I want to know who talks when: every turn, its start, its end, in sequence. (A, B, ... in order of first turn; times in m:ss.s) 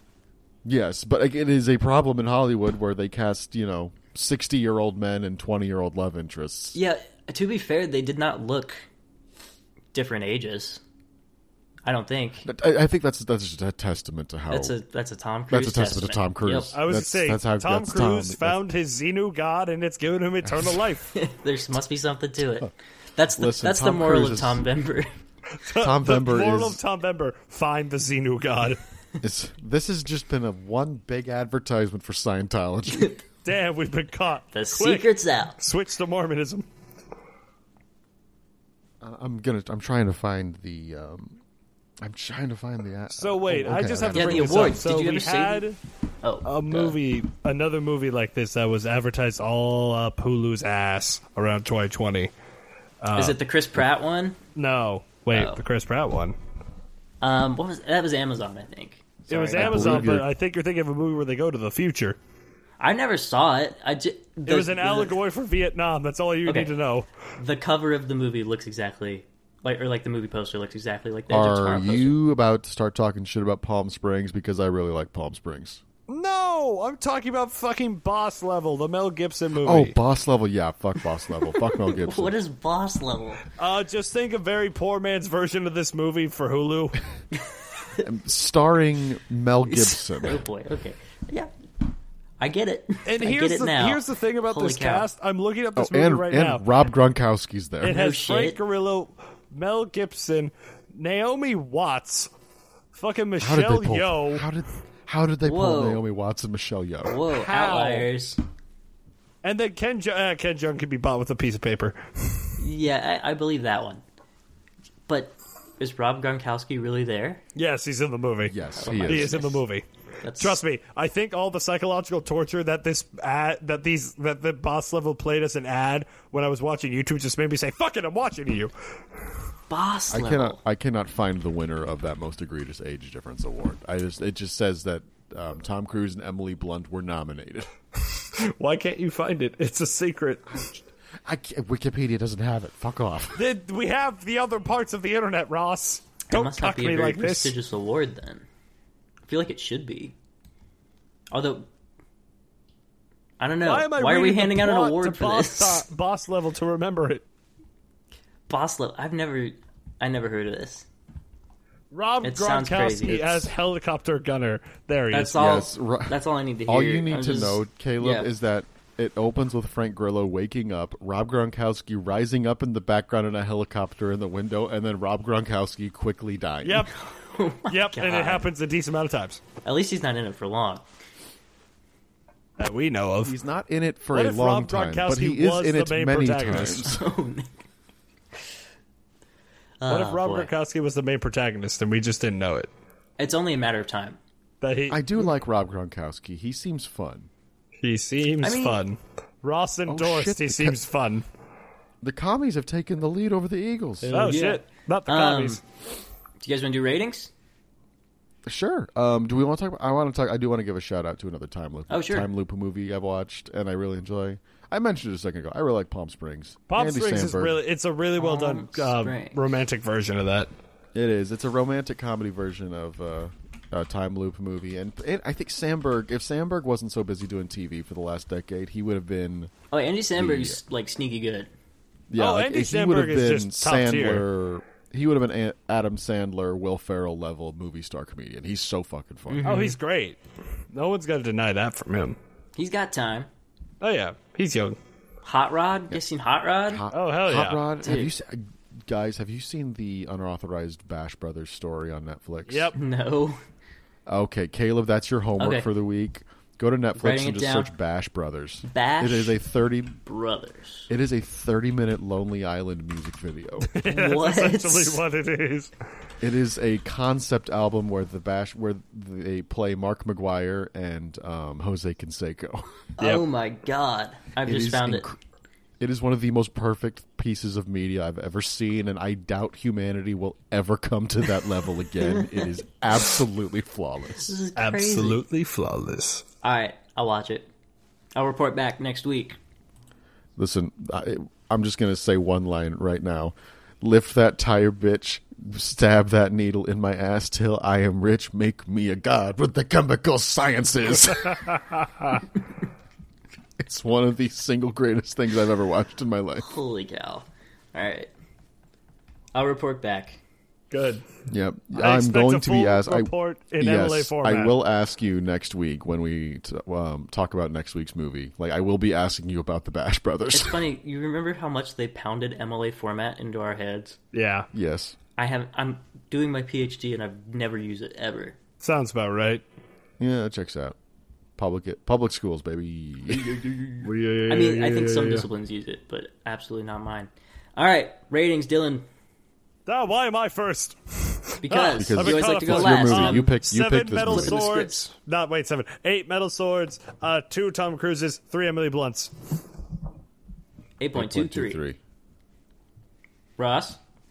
0:00.6-0:06.8 A
0:06.7-0:08.8 B
0:09.9-0:10.8 B
0:11.8-0:12.5 B
0:12.4-0:14.8 A
0:14.5-0:16.8 B
0:15.5-0:18.7 A
0:16.7-0:21.1 C
0:21.1-0:25.1 B
0:23.4-0:24.6 A
0:25.5-0:28.8 C
0:25.8-0:26.8 A
0:29.2-0:33.1 A
0:33.4-0:36.7 C
0:34.5-0:35.6 B
0:39.0-0:41.4 A
0:42.0-0:44.8 A
0:43.1-0:45.8 C
0:44.1-0:45.6 B
0:46.2-0:46.9 B
0:46.4-0:52.3 C
0:53.0-0:53.4 C
0:53.2-0:54.4 B
0:54.6-0:56.4 C
0:55.3-0:55.6 B
0:57.2-1:00.1 B
0:59.3-1:02.2 C
0:59.5-1:00.3 A
1:02.8-1:05.2 B
1:04.5-1:07.1 C
1:06.5-1:06.7 B
1:07.4-1:12.2 B
1:11.3-1:15.8 A
1:16.1-1:20.0 C
1:19.6-1:22.4 A
1:21.8-1:23.4 B
1:23.6-1:27.0 C
1:28.0-1:30.4 A
1:29.7-1:31.5 B
1:32.4-1:35.1 B
1:33.0-1:36.7 C
1:35.8-1:38.0 A
1:37.8-1:42.3 C
1:37.8-1:38.6 B
1:42.9-1:44.5 C
1:43.4-1:47.2 A
1:45.4-1:46.0 B
1:47.1-1:48.4 B
1:47.3-1:48.1 C
1:49.4-1:52.6 C
1:52.6-1:54.0 B
1:55.1-1:57.4 B
1:57.6-2:08.7 C
1:58.5-1:59.4 A
1:58.8-1:59.6 B
2:00.2-2:00.6 B
2:09.7-2:10.6 B
2:10.1-2:17.7 A
2:18.1-2:20.7 C
2:21.2-2:23.4 A
2:23.4-2:27.5 C
2:26.3-2:28.5 B
2:29.3-2:30.1 B
2:31.3-2:31.7 B
2:33.4-2:35.8 B
2:33.6-2:37.2 C
2:38.5-2:40.9 B
2:41.9-2:45.4 C
2:42.2-2:43.5 B
2:45.1-2:48.3 B
2:45.4-2:56.9 A
2:56.6-2:56.9 C
2:57.0-2:58.5 B
2:57.7-2:59.4 C
2:59.6-3:00.8 B
3:02.6-3:03.4 C
3:03.2-3:07.0 A
3:04.1-3:06.9 C
3:06.8-3:07.5 B
3:09.8-3:10.5 B
3:09.9-3:12.7 C
3:13.2-3:14.2 B
3:14.6-3:15.3 C
3:14.9-3:17.3 A
3:17.8-3:21.2 C
3:18.4-3:18.8 B
3:19.9-3:20.8 A
3:22.0-3:24.3 A
3:24.0-3:25.6 C
3:24.1-3:25.6 B
3:26.4-3:27.3 B
3:28.5-3:37.6 A
3:31.9-3:32.3 B
3:36.7-3:40.5 C
3:38.2-3:39.4 B
3:41.0-3:49.5 A
3:49.7-3:51.5 B
3:50.2-3:50.6 A
3:52.1-3:59.6 A
3:52.2-3:54.2 C
3:59.3-3:59.8 B
3:59.4-4:00.2 C
4:00.7-4:02.2 C
4:02.6-4:03.3 B
4:03.8-4:04.8 C
4:05.2-4:06.8 B
4:06.7-4:12.8 A
4:06.9-4:07.6 C
4:07.8-4:08.1 B
4:12.5-4:12.8 C
4:12.8-4:13.4 B
4:14.1-4:20.0 A
4:15.4-4:15.7 B
4:17.0-4:17.7 B
4:18.7-4:19.4 B
4:20.1-4:20.9 B
4:20.9-4:23.7 A
4:23.7-4:25.7 C
4:23.8-4:25.0 B
4:26.2-4:32.6 A
4:33.0-4:35.1 B
4:34.4-4:35.2 A
4:35.8-4:44.4 A
4:42.0-4:42.5 B
4:44.1-4:45.2 B
4:44.6-4:46.2 C
4:46.4-4:47.5 B
4:48.1-4:49.4 B
4:50.4-5:02.2 A
5:01.4-5:02.2 C
5:03.6-5:06.5 A
5:06.4-5:08.1 B
5:09.3-5:10.2 B
5:10.7-5:11.0 C
5:11.3-5:20.6 A
5:11.7-5:14.6 C
5:20.3-5:24.0 B
5:24.1-5:24.5 C
5:24.5-5:25.0 A
5:25.2-5:28.4 B
5:28.6-5:29.4 C
5:30.0-5:30.8 A
5:31.4-5:33.9 A
5:33.8-5:35.3 C
5:34.3-5:38.9 B
5:39.7-5:49.4 C
5:41.4-5:43.4 B
5:41.7-5:44.4 A
5:44.0-5:44.9 B
5:50.8-5:51.6 B
5:50.9-5:51.8 A
5:53.4-5:53.8 B